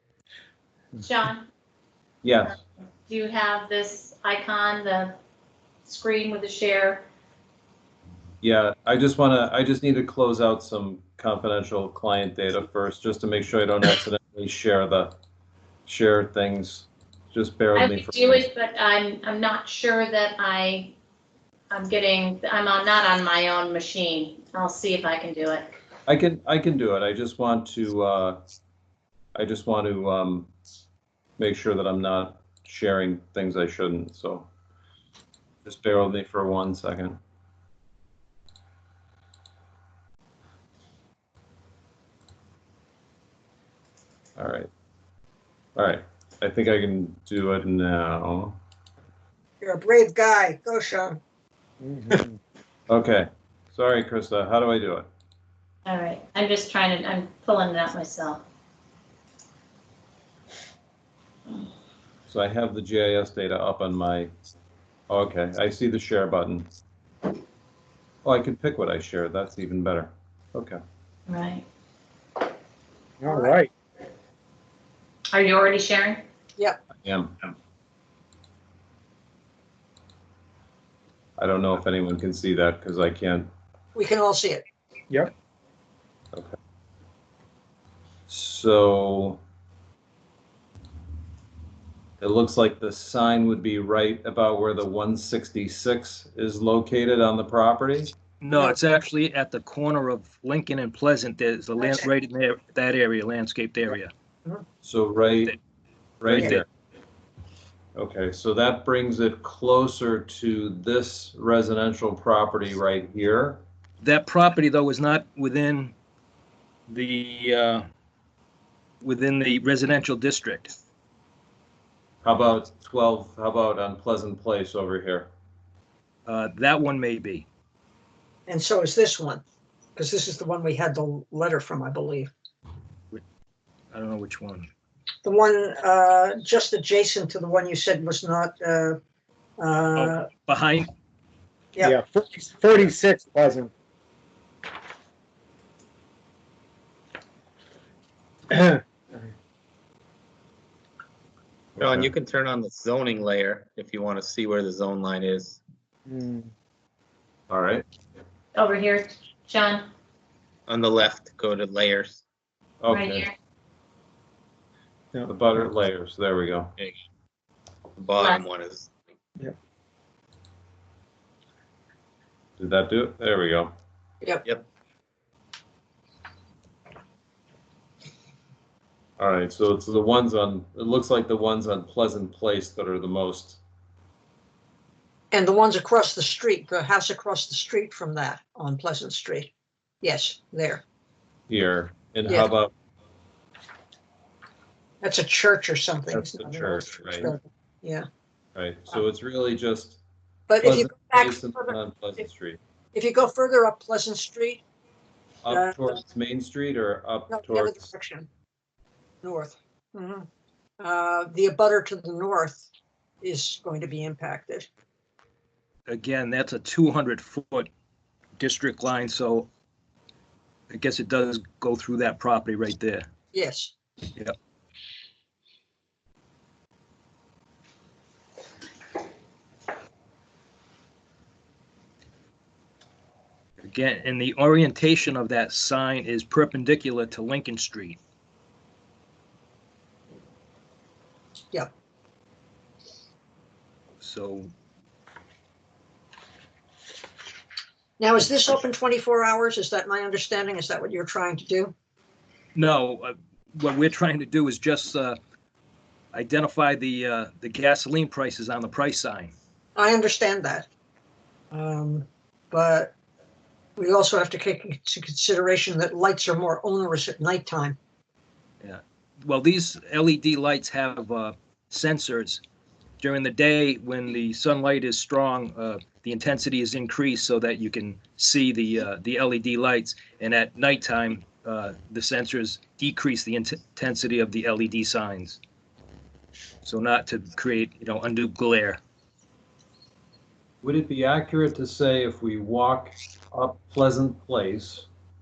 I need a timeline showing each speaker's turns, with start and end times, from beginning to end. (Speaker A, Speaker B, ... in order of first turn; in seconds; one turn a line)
Speaker A: 1.0-1.5
Speaker B: 2.2-2.6
Speaker A: 3.1-5.2
Speaker A: 5.9-7.0
Speaker B: 8.4-15.1
Speaker B: 15.9-18.4
Speaker A: 17.8-20.9
Speaker A: 21.7-25.8
Speaker B: 26.1-28.4
Speaker B: 29.4-30.5
Speaker B: 31.4-34.5
Speaker B: 35.6-37.2
Speaker B: 44.4-44.7
Speaker B: 45.8-48.6
Speaker C: 49.6-51.2
Speaker D: 51.8-52.4
Speaker B: 52.9-55.1
Speaker A: 55.9-58.4
Speaker B: 62.3-64.3
Speaker B: 65.1-66.7
Speaker B: 68.2-70.8
Speaker A: 71.3-71.6
Speaker D: 73.4-73.7
Speaker A: 75.3-76.2
Speaker B: 77.0-77.3
Speaker B: 81.4-83.5
Speaker C: 84.0-84.6
Speaker B: 88.3-89.4
Speaker B: 92.2-98.1
Speaker E: 98.4-104.1
Speaker C: 101.8-102.1
Speaker B: 104.8-105.5
Speaker B: 106.2-106.7
Speaker E: 106.3-106.6
Speaker B: 108.0-113.6
Speaker E: 114.0-115.9
Speaker E: 116.9-117.9
Speaker E: 119.0-120.7
Speaker B: 122.2-125.3
Speaker E: 126.3-127.5
Speaker C: 128.5-129.4
Speaker C: 130.0-132.3
Speaker E: 133.9-134.7
Speaker C: 135.2-139.0
Speaker C: 139.6-140.3
Speaker E: 140.0-140.9
Speaker D: 141.9-143.7
Speaker D: 148.6-148.8
Speaker F: 151.8-155.6
Speaker D: 156.1-156.5
Speaker B: 157.5-157.8
Speaker A: 158.6-159.9
Speaker F: 160.7-162.2
Speaker B: 162.8-163.3
Speaker A: 162.9-163.3
Speaker B: 165.3-166.7
Speaker F: 168.0-168.9
Speaker B: 172.6-173.7
Speaker B: 179.2-183.6
Speaker C: 185.3-190.8
Speaker B: 191.5-192.7
Speaker C: 192.2-192.5
Speaker C: 195.0-198.1
Speaker B: 196.1-197.3
Speaker B: 198.6-200.0
Speaker C: 200.5-201.8
Speaker B: 200.6-202.6
Speaker C: 202.9-204.6
Speaker B: 205.4-207.9
Speaker C: 205.5-206.0
Speaker C: 207.3-208.3
Speaker C: 209.2-210.3
Speaker C: 210.8-212.7
Speaker C: 213.2-214.7
Speaker E: 215.9-217.7
Speaker E: 218.4-219.5
Speaker E: 220.7-223.1
Speaker C: 223.3-223.7
Speaker E: 233.6-238.0
Speaker E: 244.0-244.5
Speaker C: 248.0-251.7
Speaker E: 252.6-255.2
Speaker E: 256.1-259.3
Speaker C: 259.8-260.7
Speaker C: 261.5-262.9
Speaker C: 263.8-267.8
Speaker E: 268.6-272.4
Speaker E: 273.0-285.4
Speaker E: 286.6-288.8
Speaker B: 290.6-294.9